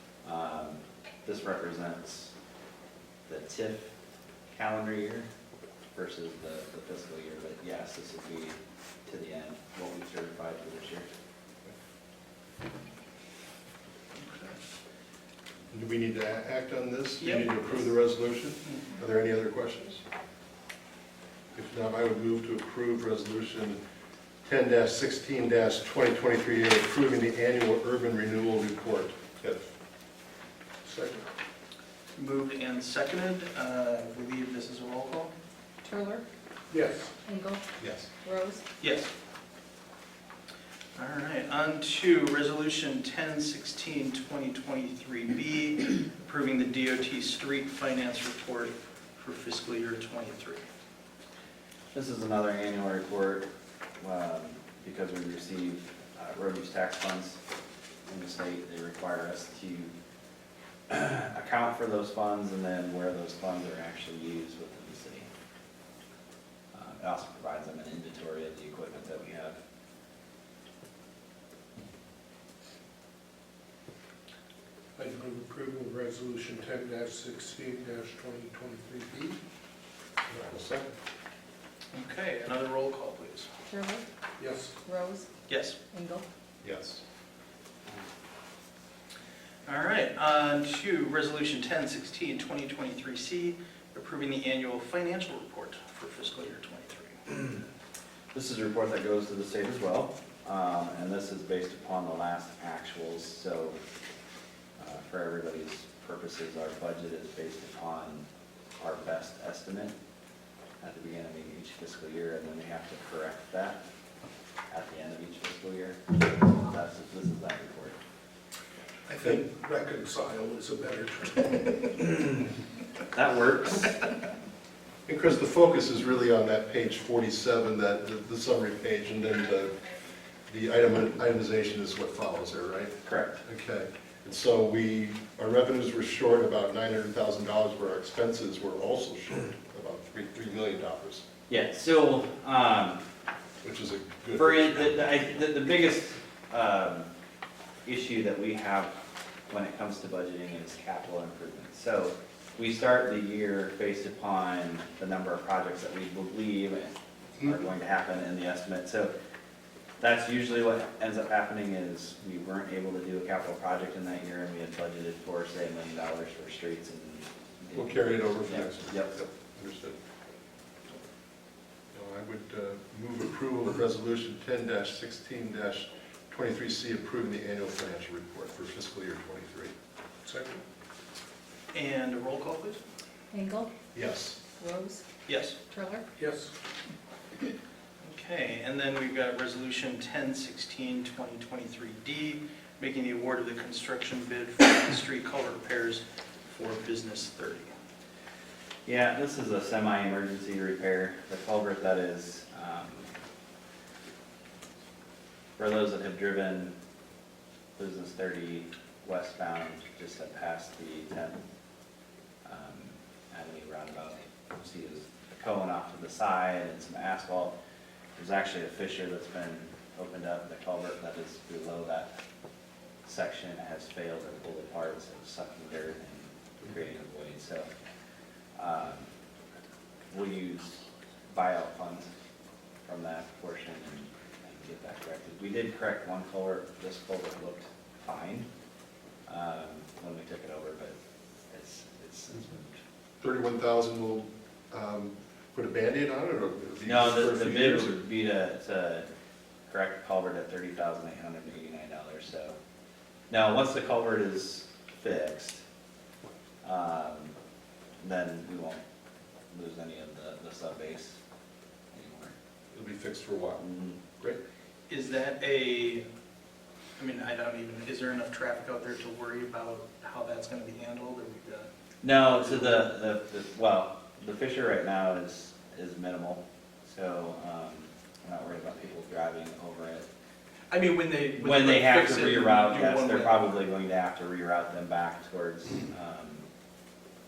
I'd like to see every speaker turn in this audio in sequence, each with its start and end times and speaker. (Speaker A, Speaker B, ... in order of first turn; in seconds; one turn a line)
Speaker A: 0.2-2.3
Speaker A: 3.3-3.9
Speaker A: 4.5-5.3
Speaker A: 5.9-11.1
Speaker B: 14.2-14.6
Speaker C: 15.7-20.0
Speaker B: 17.2-17.6
Speaker C: 21.6-23.8
Speaker C: 24.4-29.7
Speaker D: 30.8-31.3
Speaker B: 32.2-35.3
Speaker E: 35.8-36.2
Speaker D: 36.7-37.1
Speaker E: 37.2-37.6
Speaker C: 37.8-38.1
Speaker E: 38.2-38.6
Speaker B: 38.8-39.1
Speaker B: 41.0-50.6
Speaker A: 51.9-53.5
Speaker A: 54.0-57.4
Speaker A: 58.0-59.9
Speaker A: 60.9-65.3
Speaker A: 66.7-69.6
Speaker D: 75.0-79.4
Speaker C: 80.3-81.0
Speaker B: 81.9-83.5
Speaker E: 83.7-84.0
Speaker D: 84.4-84.8
Speaker E: 84.8-85.2
Speaker B: 85.5-85.8
Speaker E: 85.9-86.2
Speaker C: 86.6-87.0
Speaker B: 89.7-97.2
Speaker A: 98.3-103.8
Speaker A: 104.8-108.2
Speaker A: 108.8-110.0
Speaker A: 110.8-113.8
Speaker A: 114.7-118.0
Speaker D: 119.1-122.0
Speaker A: 123.1-124.1
Speaker C: 125.1-129.8
Speaker C: 130.5-141.2
Speaker A: 133.0-133.4
Speaker A: 141.5-143.0
Speaker C: 143.6-145.2
Speaker A: 144.3-147.1
Speaker A: 147.8-148.9
Speaker A: 149.5-159.1
Speaker A: 160.0-169.2
Speaker C: 167.7-170.0
Speaker C: 171.9-179.7
Speaker D: 180.2-180.6
Speaker B: 181.7-182.8
Speaker E: 183.3-183.7
Speaker C: 183.9-184.4
Speaker E: 184.6-185.0
Speaker B: 185.2-185.6
Speaker E: 185.7-186.0
Speaker D: 186.2-186.5
Speaker B: 188.0-197.7
Speaker A: 198.8-203.1
Speaker A: 205.6-206.7
Speaker A: 207.8-211.4
Speaker A: 212.4-217.5
Speaker A: 218.2-222.2
Speaker A: 223.0-227.7
Speaker A: 228.6-229.1
Speaker A: 230.1-232.1
Speaker A: 232.8-238.5
Speaker A: 239.3-240.9
Speaker A: 241.5-242.8
Speaker C: 243.2-248.0
Speaker A: 246.8-249.1
Speaker A: 249.7-252.6
Speaker A: 253.3-255.6
Speaker A: 256.6-257.3
Speaker A: 258.0-258.8
Speaker A: 259.5-261.2
Speaker A: 261.9-262.3
Speaker C: 262.7-263.6
Speaker A: 263.6-264.0
Speaker B: 264.9-266.1
Speaker B: 267.0-271.7
Speaker A: 272.0-280.1
Speaker B: 272.3-272.9
Speaker B: 280.7-283.5
Speaker A: 281.4-286.4